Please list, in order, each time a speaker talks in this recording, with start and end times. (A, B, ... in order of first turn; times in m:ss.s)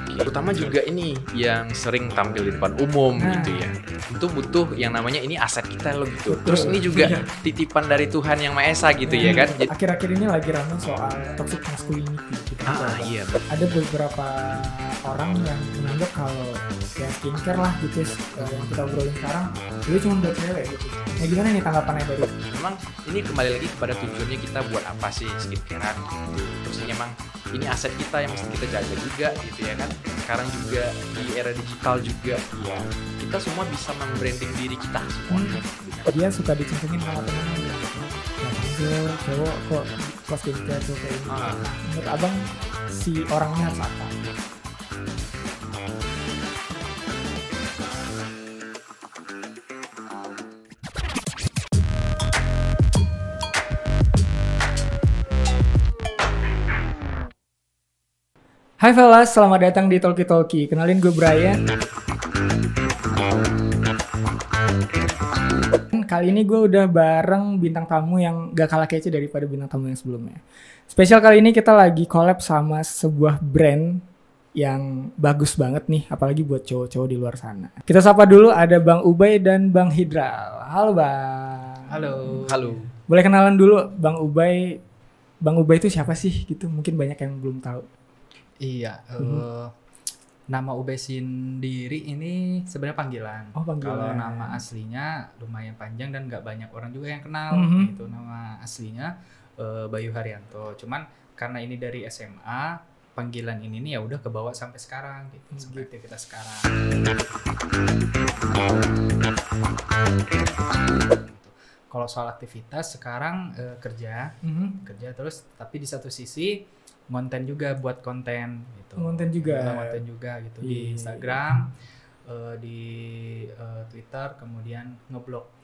0:00.1-0:09.7 A
0:03.2-0:03.7 B
0:06.3-0:07.1 B
0:06.9-0:07.3 C
0:09.1-0:22.3 B
0:12.7-0:13.5 A
0:18.4-0:18.8 A
0:22.4-0:36.2 A
0:35.3-0:44.2 B
0:41.3-0:41.7 A
0:58.8-1:01.6 B
1:05.9-1:14.0 B
1:14.6-1:22.4 B
1:21.8-1:22.7 C
1:22.4-1:22.9 A
1:23.1-1:24.8 B
1:25.4-1:27.9 B
1:28.6-1:29.7 C
1:29.2-1:29.4 B
1:30.5-1:46.7 C
1:33.6-1:34.6 B
1:37.5-1:37.9 B
1:45.5-1:45.9 B
1:50.3-2:01.8 C
1:54.4-1:54.8 B
1:59.0-2:00.0 B
2:00.6-2:01.4 B
2:02.2-2:05.5 C